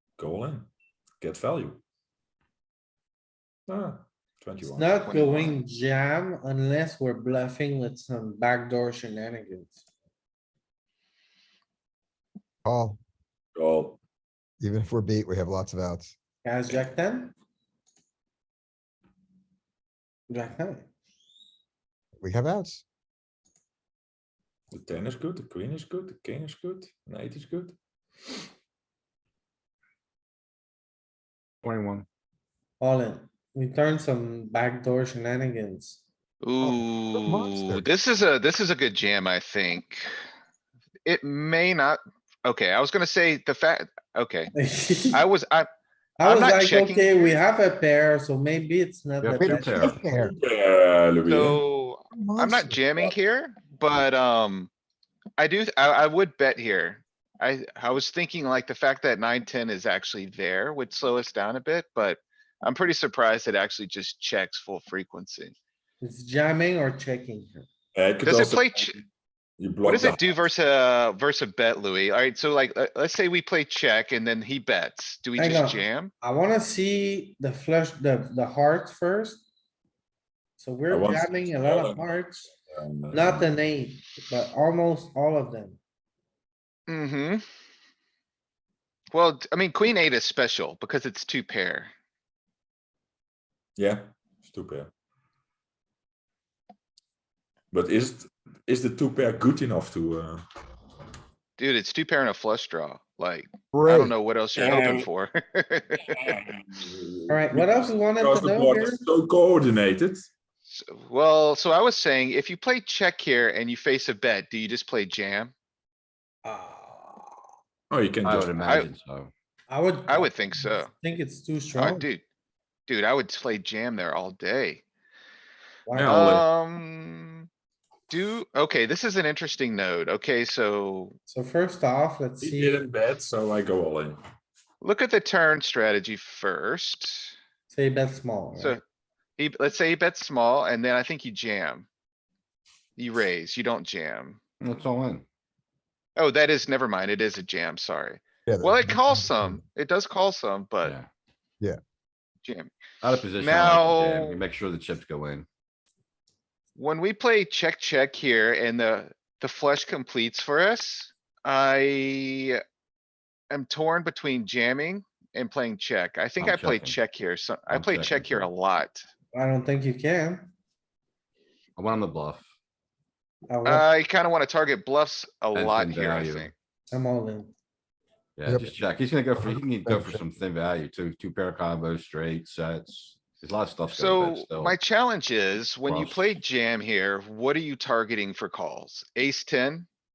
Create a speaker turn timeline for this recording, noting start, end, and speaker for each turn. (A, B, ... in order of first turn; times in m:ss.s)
0:00.2-0:00.7 A
0:01.2-0:01.8 A
0:03.7-0:05.4 A
0:04.6-0:09.8 B
0:05.0-0:05.6 C
0:12.6-0:13.0 D
0:13.5-0:14.0 A
0:14.6-0:16.1 D
0:16.4-0:17.3 B
0:20.3-0:20.9 B
0:22.2-0:22.8 D
0:24.7-0:27.8 A
0:31.6-0:32.0 E
0:32.8-0:36.0 B
0:36.4-0:40.1 C
0:36.6-0:37.8 D
0:41.0-0:44.5 C
0:44.5-0:45.2 B
0:45.1-0:45.7 C
0:46.2-0:50.0 B
0:46.2-0:47.2 C
0:49.2-0:50.0 E
0:49.4-0:50.3 D
0:50.0-0:51.6 A
0:51.2-0:54.7 C
0:52.1-0:53.1 D
0:55.4-1:05.5 C
1:06.0-1:07.6 B
1:07.9-1:08.7 A
1:08.2-1:09.0 C
1:09.6-1:10.4 A
1:09.8-1:16.1 C
1:15.4-1:19.4 B
1:20.6-1:22.5 B
1:20.9-1:23.5 A
1:23.1-1:25.8 B
1:26.9-1:27.4 C
1:29.1-1:31.9 C
1:33.8-1:34.9 A
1:37.7-1:40.4 A
1:41.6-1:46.4 C
1:43.8-1:45.0 A
1:46.1-1:50.3 A
1:47.3-1:49.0 B
1:50.7-1:55.5 C
1:56.4-1:57.4 B
1:57.9-1:58.5 A
1:58.2-1:59.3 E
1:58.6-1:58.9 C
1:59.7-2:02.1 B
2:00.1-2:00.9 C
2:01.7-2:02.2 C
2:02.9-2:04.8 C
2:05.9-2:06.2 B
2:05.9-2:06.4 A
2:06.0-2:07.5 C
2:08.1-2:11.1 C
2:11.3-2:12.8 B
2:12.4-2:14.2 A
2:14.8-2:17.3 C
2:17.7-2:18.8 B
2:18.6-2:18.8 C
2:19.4-2:21.9 C
2:23.0-2:24.4 C
2:24.6-2:25.2 E
2:26.2-2:31.0 C
2:28.5-2:29.0 D
2:32.4-2:32.7 C
2:33.0-2:35.4 E
2:33.4-2:34.4 C
2:36.8-2:42.6 C
2:43.5-2:49.0 C
2:46.4-2:47.0 E
2:47.7-2:48.5 E
2:49.3-2:50.5 B
2:51.8-2:52.4 E
2:53.5-2:53.8 B
2:53.6-2:56.5 C
2:55.5-2:56.5 E
2:56.9-2:57.5 B
2:58.4-3:04.7 E
2:58.5-2:58.7 D
2:59.4-3:00.2 D
3:03.9-3:09.8 C
3:05.8-3:06.3 E